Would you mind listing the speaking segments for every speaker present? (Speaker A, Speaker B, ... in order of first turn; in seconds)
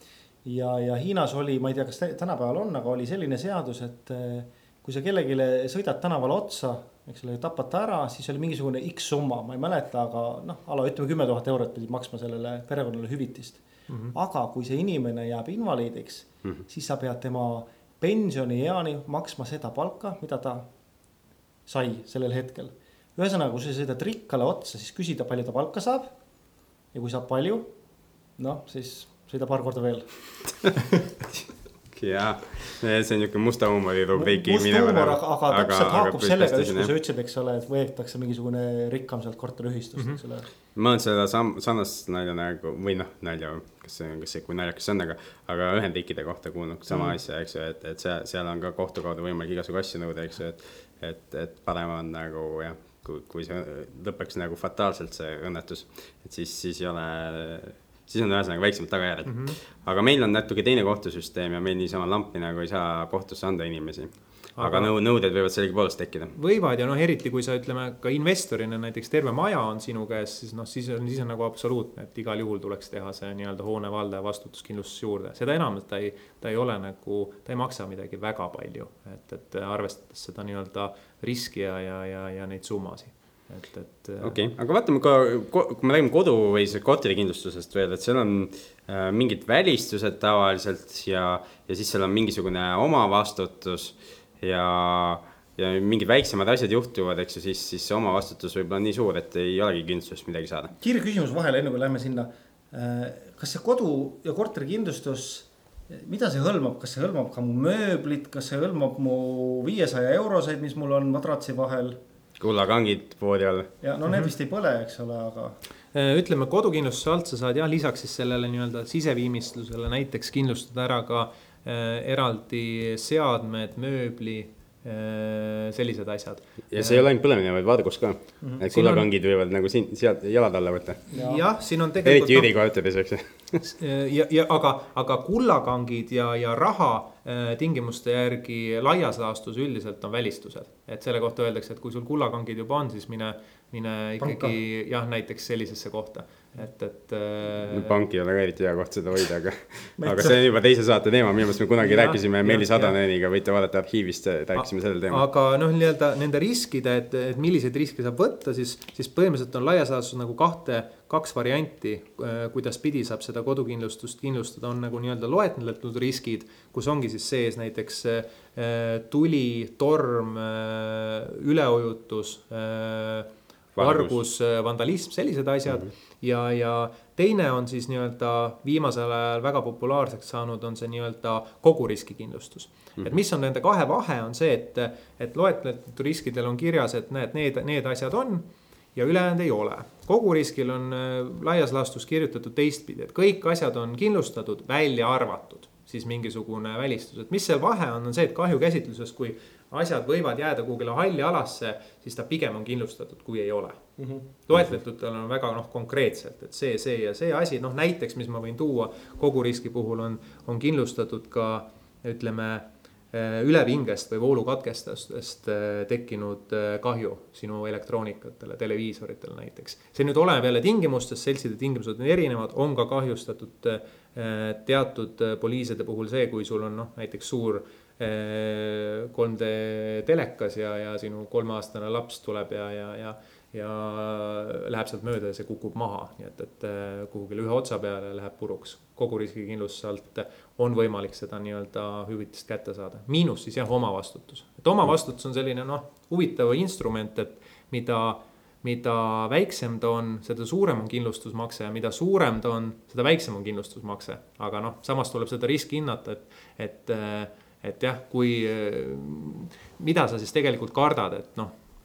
Speaker A: 0.5-13.6, 14.1-20.7, 21.7-26.1, 26.9-27.7, 28.4-30.1, 34.1-40.5, 100.8-112.0, 113.8-115.6, 131.1-131.4, 144.2-144.6, 150.0-150.4, 204.0-204.2
Speaker B: 13.9-14.1, 59.2-59.6, 64.6-64.9, 66.3-84.4, 115.9-127.0, 128.7-129.1, 131.1-132.5, 133.6-148.0, 151.8-152.9, 154.6-203.8, 204.5-261.5
Speaker C: 31.9-36.9, 40.8-66.3, 84.2-100.7, 112.4-113.7, 126.7-131.1, 132.0-133.6, 147.7-155.3, 173.8-174.2